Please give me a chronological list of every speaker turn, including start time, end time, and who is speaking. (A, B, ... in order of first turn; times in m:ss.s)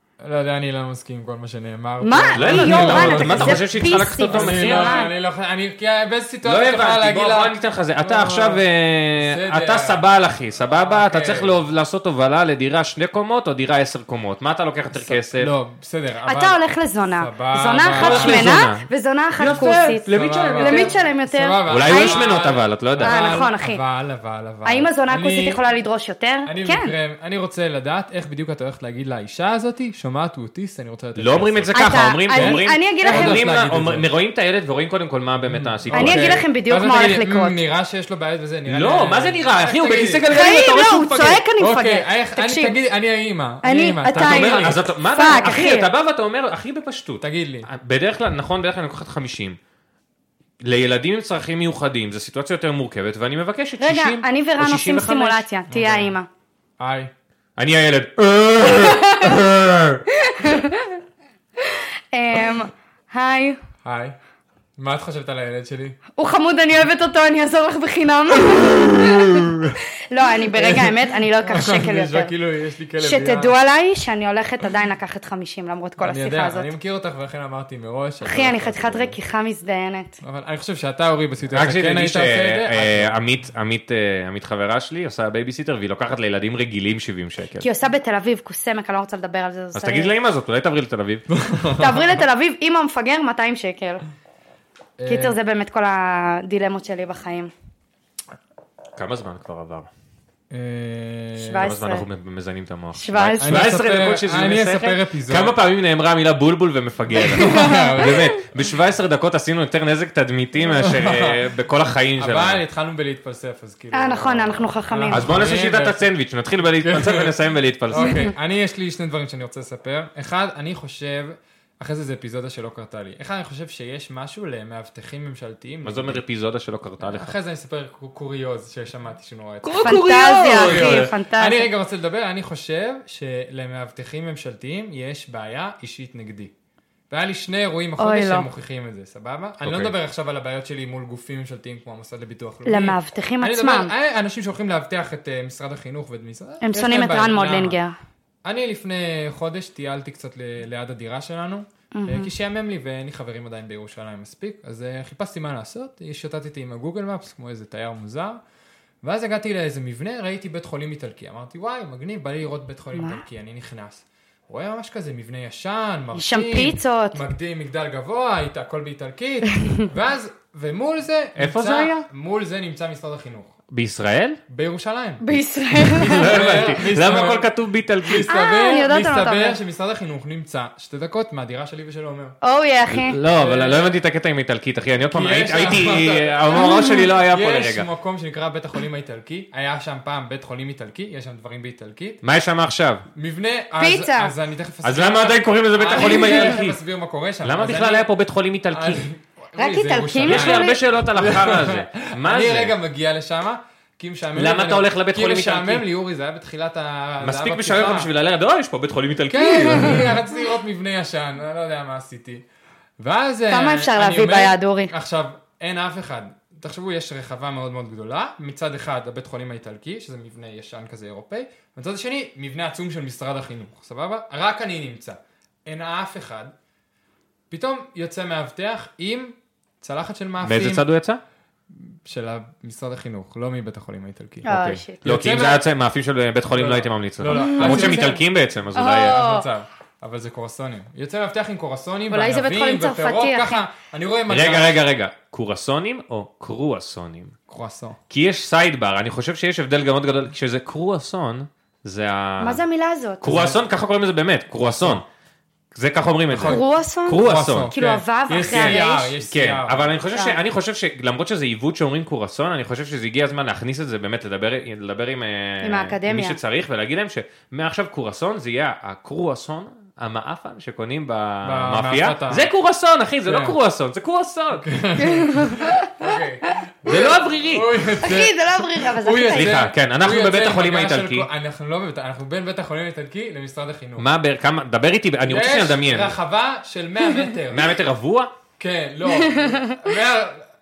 0:00.2-0:08.6 A
0:02.0-0:05.1 B
0:02.4-0:05.0 C
0:06.4-0:15.5 C
0:09.2-0:10.0 A
0:10.6-0:11.6 A
0:14.9-0:16.6 A
0:16.3-0:22.3 B
0:17.2-0:18.6 A
0:17.9-0:18.9 C
0:19.4-0:20.9 C
0:19.4-0:25.6 A
0:21.7-0:23.3 C
0:23.0-0:23.8 B
0:24.6-0:26.9 B
0:26.5-0:31.7 A
0:31.2-0:36.4 C
0:31.7-0:33.4 B
0:32.3-0:34.1 A
0:35.4-0:40.3 A
0:35.9-0:37.6 B
0:38.7-0:41.4 C
0:40.3-0:42.8 B
0:41.6-0:44.8 A
0:43.6-0:45.9 B
0:44.1-0:49.6 C
0:47.2-0:47.7 A
0:50.6-0:55.4 C
0:53.8-0:56.3 B
0:55.7-0:56.2 A
0:56.8-0:57.1 A
0:57.6-1:00.0 C
0:58.6-0:59.4 B
1:00.1-1:01.0 B
1:01.6-1:03.6 B
1:03.8-1:04.2 A
1:04.8-1:06.0 A
1:06.2-1:09.5 B
1:08.5-1:09.8 A
1:10.1-1:12.3 B
1:10.5-1:13.6 A
1:13.0-1:16.7 B
1:16.0-1:19.2 A
1:18.2-1:20.2 B
1:20.2-1:23.2 A
1:21.5-1:27.7 C
1:27.6-1:30.1 B
1:29.8-1:31.3 C
1:31.4-1:32.1 A
1:31.8-1:34.0 B
1:35.0-1:35.4 A
1:35.1-1:37.5 B
1:39.0-1:39.9 C
1:40.5-1:41.7 A
1:41.4-1:42.0 B
1:41.6-1:52.6 C
1:43.0-1:43.6 B
1:43.4-1:45.6 A
1:47.2-1:48.3 A
1:47.2-1:48.1 B
1:50.6-1:51.4 A
1:52.2-1:56.0 A
1:53.9-1:55.3 B
1:55.1-1:58.2 C
1:56.8-1:57.3 A
1:57.9-2:06.2 A
2:05.8-2:07.4 C
2:07.0-2:10.0 A
2:09.6-2:11.1 C
2:09.8-2:11.7 B
2:10.5-2:16.5 A
2:17.1-2:27.8 A
2:18.0-2:18.5 B
2:19.6-2:19.9 C
2:22.7-2:23.9 B
2:26.6-2:28.0 B
2:28.4-2:38.4 A
2:31.9-2:32.3 B
2:39.0-2:53.6 A
2:43.0-2:43.2 B
2:46.1-2:47.2 B
2:51.4-2:52.0 C
2:53.7-2:54.4 C
2:54.5-2:55.4 A
2:55.2-2:56.4 B
2:55.8-2:58.3 C
2:56.0-2:57.5 A
2:58.0-3:02.4 A
2:58.3-2:59.6 B
3:02.4-3:03.2 B
3:02.9-3:07.9 C
3:03.2-3:04.0 A
3:05.1-3:12.2 A
3:06.6-3:07.1 B
3:12.2-3:13.0 C
3:13.1-3:18.1 A
3:13.8-3:14.3 B
3:14.8-3:16.8 C
3:16.0-3:16.6 B
3:17.4-3:19.0 C
3:18.7-3:28.1 A
3:19.6-3:20.8 B
3:20.2-3:22.7 C
3:24.4-3:25.9 C
3:27.2-3:30.1 C
3:29.3-3:32.4 A
3:33.0-3:46.5 A
3:33.5-3:34.9 B
3:47.5-3:50.8 A
3:50.4-3:51.2 C
3:51.7-3:55.6 A
3:54.4-3:55.0 B
3:54.5-3:59.2 C
3:56.6-3:58.2 A
3:57.3-3:58.1 B
3:58.8-3:59.5 B
3:58.8-4:04.8 A
4:02.1-4:03.6 B
4:04.3-4:07.4 C
4:07.5-4:08.0 A
4:08.1-4:12.6 C
4:12.4-4:13.3 B
4:13.2-4:15.0 C
4:13.2-4:13.6 A
4:15.7-4:17.7 C
4:16.3-4:16.6 A
4:16.5-4:19.2 B
4:17.1-4:19.9 A
4:18.5-4:34.7 C
4:25.6-4:26.4 B
4:31.4-4:32.5 A
4:33.3-4:33.6 A
4:34.6-4:44.1 A
4:35.0-4:36.5 B
4:36.9-4:37.7 C
4:38.0-4:39.6 B
4:39.3-4:41.3 C
4:44.0-4:46.1 C
4:45.2-4:47.8 A
4:47.5-4:48.3 C
4:48.6-4:50.5 A
4:49.2-4:49.8 B